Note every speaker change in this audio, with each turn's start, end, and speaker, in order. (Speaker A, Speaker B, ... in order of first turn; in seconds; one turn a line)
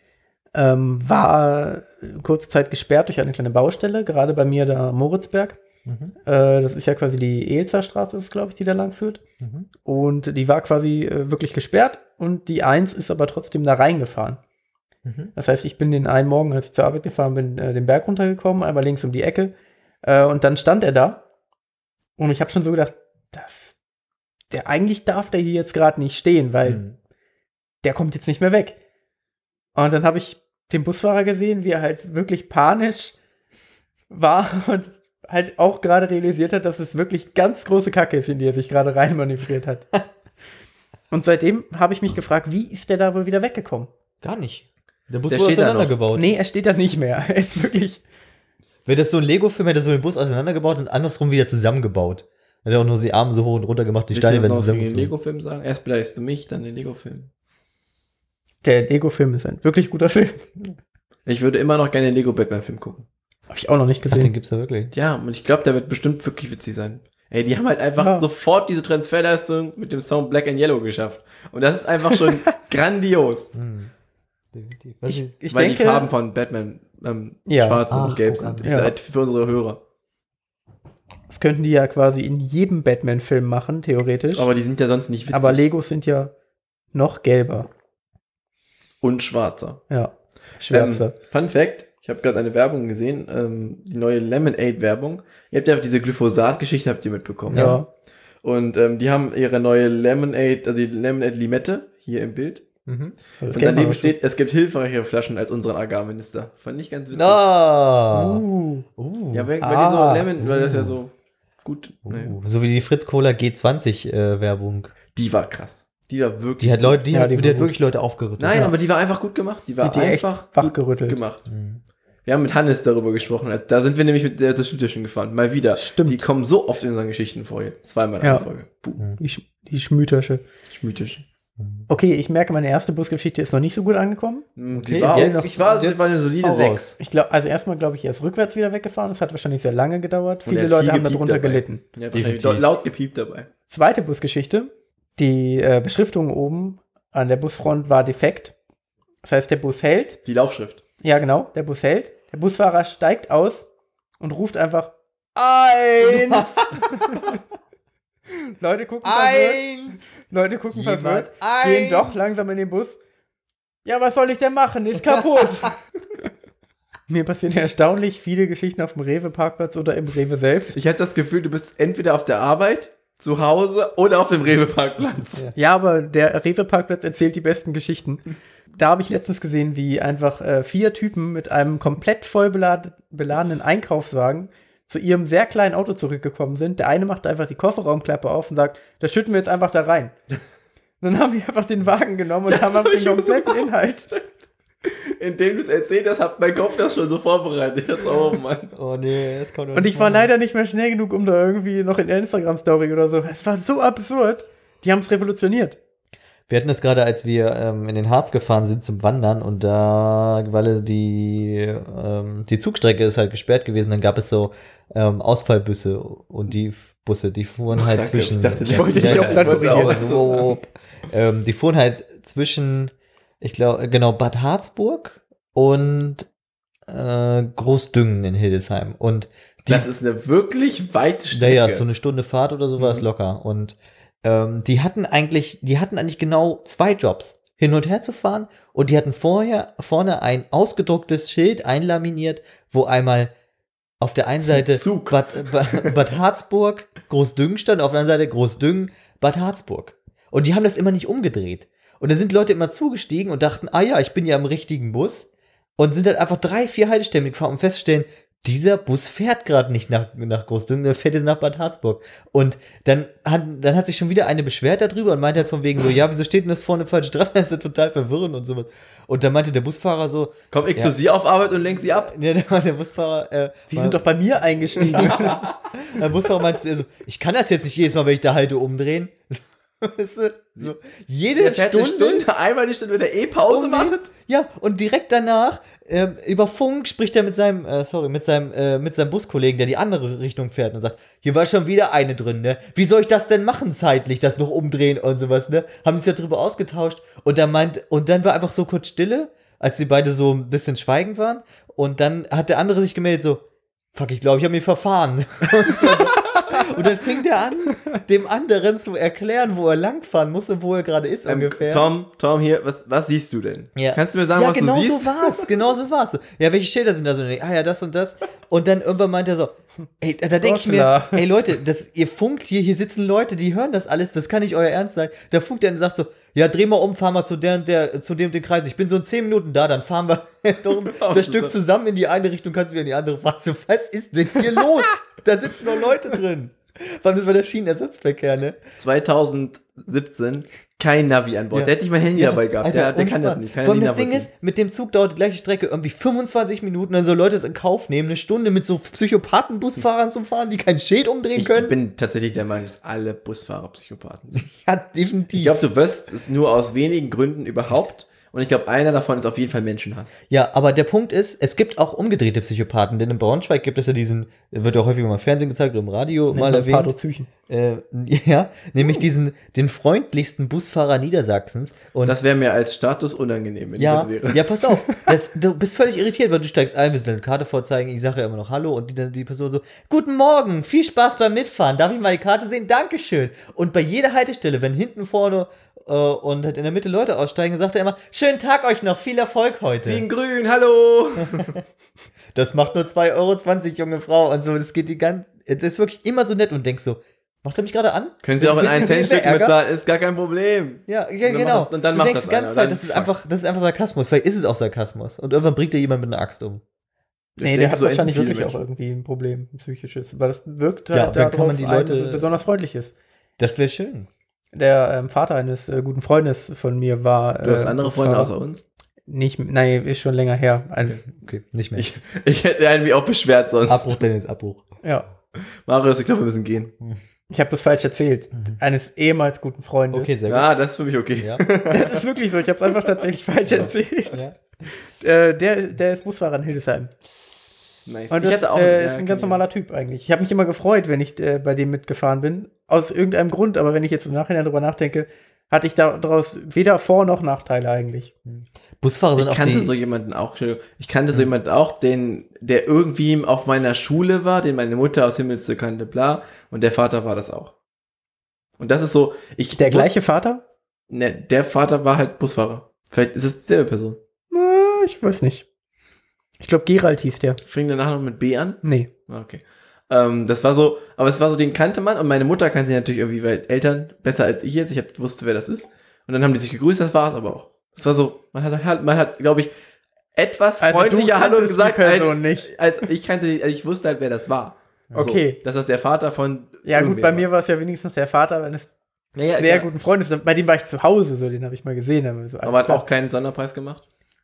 Speaker A: 0.5-5.6
Speaker B: 5.8-6.1
Speaker A: 6.2-9.2
Speaker B: 9.4-9.7
Speaker A: 9.8-14.4
Speaker B: 15.0-15.3
Speaker A: 15.3-21.2
Speaker A: 22.2-23.7
Speaker A: 24.5-26.8
Speaker B: 26.6-26.9
Speaker A: 27.8-28.8
Speaker A: 29.7-33.1
Speaker A: 34.1-39.9
Speaker A: 41.1-43.9
Speaker B: 44.2-46.3
Speaker C: 45.3-46.0
Speaker A: 46.1-48.0
Speaker B: 48.9-55.1
Speaker C: 54.1-57.3
Speaker A: 58.6-60.5
Speaker C: 61.2-63.0
Speaker A: 63.5-64.3
Speaker B: 64.1-64.9
Speaker C: 64.9-73.5
Speaker A: 68.0-68.2
Speaker B: 73.5-73.9
Speaker B: 74.5-75.3
Speaker A: 75.1-76.1
Speaker C: 75.5-79.8
Speaker A: 77.5-78.1
Speaker B: 77.9-78.7
Speaker A: 78.6-78.9
Speaker A: 81.3-84.5
Speaker C: 84.3-85.6
Speaker A: 85.3-86.3
Speaker A: 86.9-87.7
Speaker C: 89.0-89.8
Speaker A: 89.9-91.1
Speaker C: 90.7-97.8
Speaker A: 97.5-97.9
Speaker C: 98.4-102.7
Speaker B: 102.8-103.2
Speaker A: 103.4-104.1
Speaker C: 103.5-107.4
Speaker B: 107.1-108.4
Speaker A: 108.1-108.8
Speaker B: 109.0-109.5
Speaker C: 109.3-111.1
Speaker A: 109.6-110.3
Speaker B: 110.4-111.0
Speaker C: 111.6-112.4
Speaker B: 112.0-114.9
Speaker C: 115.1-117.0
Speaker B: 116.6-118.7
Speaker A: 117.1-117.7
Speaker C: 118.4-121.4
Speaker A: 119.8-121.2
Speaker B: 121.5-121.8
Speaker C: 122.2-129.0
Speaker A: 125.8-126.2
Speaker A: 129.2-130.4
Speaker C: 130.7-131.2
Speaker B: 131.6-131.9
Speaker A: 131.9-135.7
Speaker C: 134.6-136.9
Speaker B: 134.7-136.9
Speaker A: 137.0-141.8
Speaker C: 140.4-143.5
Speaker B: 142.1-142.7
Speaker A: 143.7-148.5
Speaker A: 149.2-150.2
Speaker C: 150.2-150.8
Speaker A: 151.0-153.6
Speaker A: 154.2-154.9
Speaker B: 155.3-157.3
Speaker A: 156.0-157.3
Speaker A: 158.4-163.0
Speaker B: 159.0-160.2
Speaker B: 160.7-162.2
Speaker A: 163.8-165.8
Speaker B: 165.2-165.7
Speaker A: 167.1-170.8
Speaker C: 170.7-175.5
Speaker A: 175.5-178.2
Speaker A: 178.7-190.1
Speaker A: 191.0-194.3
Speaker C: 192.5-193.6
Speaker C: 194.8-198.7
Speaker B: 198.7-200.3
Speaker A: 199.7-205.8
Speaker B: 206.5-226.3
Speaker C: 217.7-220.5
Speaker A: 218.8-220.1
Speaker B: 226.9-229.8
Speaker C: 229.7-231.8
Speaker B: 231.3-243.3
Speaker B: 244.0-270.9
Speaker C: 244.5-246.0
Speaker C: 270.5-272.1
Speaker B: 271.8-274.0
Speaker A: 273.7-275.4
Speaker C: 274.8-275.6
Speaker B: 274.8-282.3
Speaker C: 281.3-284.1
Speaker B: 283.5-303.4
Speaker B: 303.9-311.9
Speaker C: 311.3-315.5
Speaker B: 313.8-338.6
Speaker A: 320.4-321.3
Speaker C: 330.9-331.5
Speaker C: 338.8-344.3
Speaker B: 341.5-351.7
Speaker C: 351.3-354.5
Speaker B: 354.4-355.6
Speaker C: 355.3-360.1
Speaker B: 360.3-366.9
Speaker A: 366.3-367.3
Speaker B: 367.5-372.1
Speaker C: 372.0-374.4
Speaker B: 373.8-390.0
Speaker C: 389.8-391.6
Speaker B: 391.2-391.6
Speaker B: 392.3-399.6
Speaker C: 398.2-403.1
Speaker B: 400.9-406.6
Speaker C: 407.4-408.6
Speaker A: 407.4-412.9
Speaker B: 410.9-412.2
Speaker B: 413.4-414.1
Speaker A: 414.5-418.3
Speaker C: 417.4-418.6
Speaker A: 419.1-421.1
Speaker B: 421.1-421.9
Speaker C: 421.8-424.0
Speaker B: 423.7-424.6
Speaker C: 425.4-426.7
Speaker A: 427.3-430.1
Speaker B: 429.9-430.5
Speaker C: 430.2-432.0
Speaker A: 431.7-434.2
Speaker B: 433.5-434.4
Speaker A: 434.7-436.9
Speaker C: 437.9-439.4
Speaker A: 438.1-448.1
Speaker B: 448.3-449.7
Speaker C: 449.1-457.5
Speaker C: 458.6-459.9
Speaker A: 459.6-460.4
Speaker C: 460.9-464.0
Speaker A: 464.3-465.4
Speaker A: 466.4-467.4
Speaker C: 467.4-479.5
Speaker A: 468.6-468.9
Speaker C: 480.1-487.2
Speaker A: 480.6-482.5
Speaker A: 484.9-485.4
Speaker A: 486.6-488.7
Speaker C: 489.1-489.7
Speaker A: 489.4-492.8
Speaker C: 492.4-493.8